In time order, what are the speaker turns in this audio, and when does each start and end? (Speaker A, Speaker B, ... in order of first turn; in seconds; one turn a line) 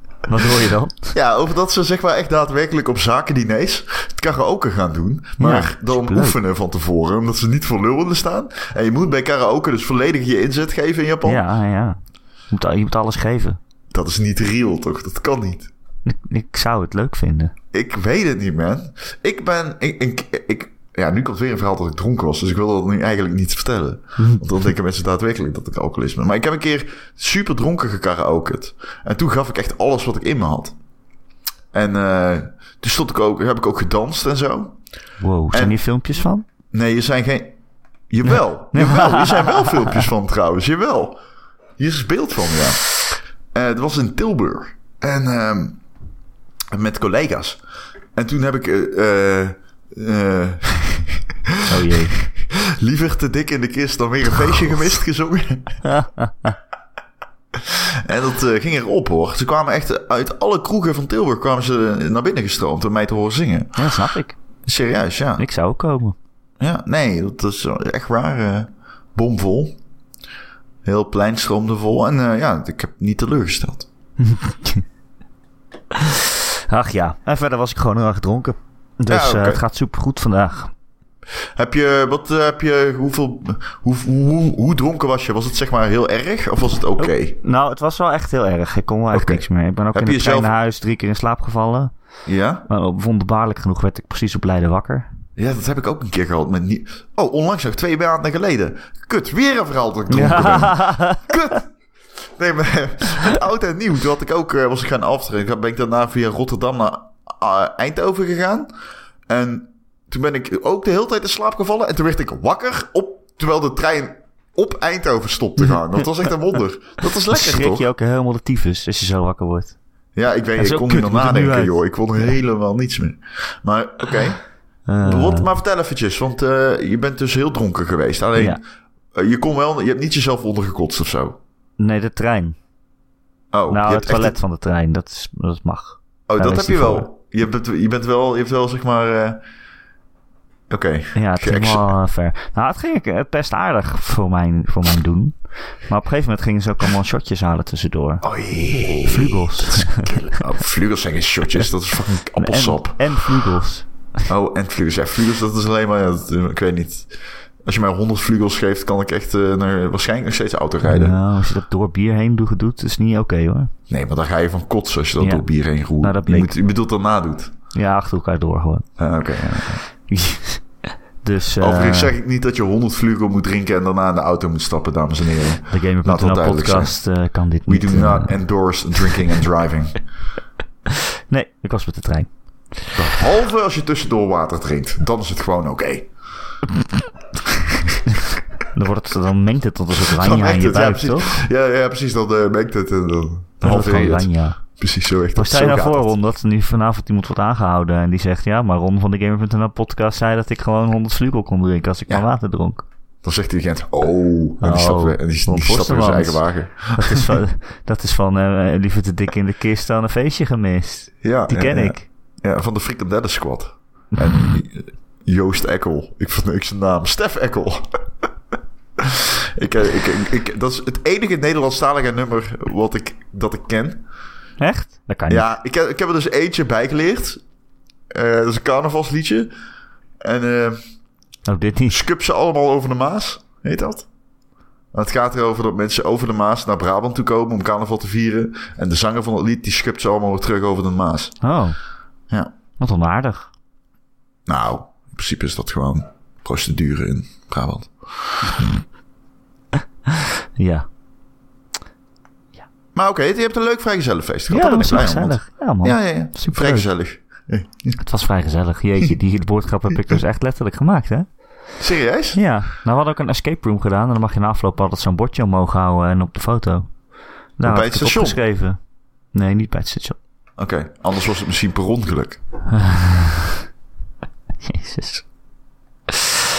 Speaker A: 0.3-1.1
Speaker B: 1.1-11.4
Speaker A: 5.4-6.4
Speaker A: 11.2-12.0
Speaker A: 12.5-13.6
Speaker B: 13.9-15.7
Speaker A: 16.0-17.5
Speaker B: 17.7-30.7
Speaker A: 24.2-24.4
Speaker B: 31.7-34.8
Speaker A: 35.2-36.4
Speaker B: 35.5-35.8
Speaker B: 36.7-37.5
Speaker B: 38.1-41.2
Speaker A: 38.7-40.0
Speaker B: 41.8-45.8
Speaker B: 46.7-47.6
Speaker B: 48.1-55.9
Speaker A: 51.7-52.2
Speaker A: 55.8-56.5
Speaker B: 57.5-64.0
Speaker A: 63.8-64.3
Speaker B: 64.6-65.4
Speaker A: 65.4-66.1
Speaker B: 66.6-69.8
Speaker B: 70.8-73.9
Speaker A: 74.2-74.8
Speaker A: 75.9-80.7
Speaker B: 79.1-79.6
Speaker B: 81.5-87.3
Speaker A: 87.0-91.9
Speaker B: 89.1-90.5
Speaker B: 92.2-92.7
Speaker A: 92.7-95.1
Speaker B: 95.4-101.7
Speaker A: 100.1-101.3
Speaker B: 102.3-108.7
Speaker B: 109.3-117.8
Speaker A: 117.3-119.8
Speaker B: 120.2-124.4
Speaker A: 120.6-121.8
Speaker A: 124.9-125.5
Speaker B: 125.0-128.6
Speaker B: 129.1-131.4
Speaker A: 131.8-132.6
Speaker B: 133.5-134.3
Speaker A: 133.7-137.1
Speaker B: 136.3-139.4
Speaker B: 140.7-141.9
Speaker A: 141.1-148.2
Speaker B: 148.2-153.4
Speaker A: 149.0-150.2
Speaker A: 152.4-153.9
Speaker B: 154.3-157.1
Speaker B: 157.6-161.2
Speaker A: 160.8-163.7
Speaker B: 163.9-167.5
Speaker A: 165.2-165.4
Speaker A: 166.0-166.5
Speaker A: 167.7-168.9
Speaker B: 169.0-169.8
Speaker A: 170.1-172.1
Speaker B: 171.6-176.9
Speaker A: 175.7-178.4
Speaker B: 177.7-180.0
Speaker A: 181.3-182.3
Speaker B: 182.9-186.1
Speaker B: 187.4-188.1
Speaker A: 188.7-191.4
Speaker B: 190.0-196.1
Speaker A: 193.6-194.6
Speaker A: 195.3-202.8
Speaker B: 203.2-207.4
Speaker A: 204.6-212.1
Speaker B: 211.2-218.0
Speaker B: 219.0-224.0
Speaker A: 224.6-225.4
Speaker B: 225.3-227.4
Speaker B: 228.1-229.5
Speaker B: 230.2-230.8
Speaker A: 231.4-232.0
Speaker B: 231.9-234.1
Speaker B: 234.9-241.4
Speaker A: 241.4-241.8
Speaker A: 242.8-243.5
Speaker B: 244.5-248.8
Speaker A: 250.1-250.8
Speaker B: 252.9-258.0
Speaker A: 254.5-256.9
Speaker A: 258.0-261.3
Speaker B: 261.8-262.4
Speaker A: 262.3-266.9
Speaker A: 267.6-268.8
Speaker B: 267.6-268.4
Speaker A: 269.3-270.2
Speaker B: 270.6-272.4
Speaker A: 272.7-273.5
Speaker A: 274.6-275.2
Speaker A: 276.1-276.4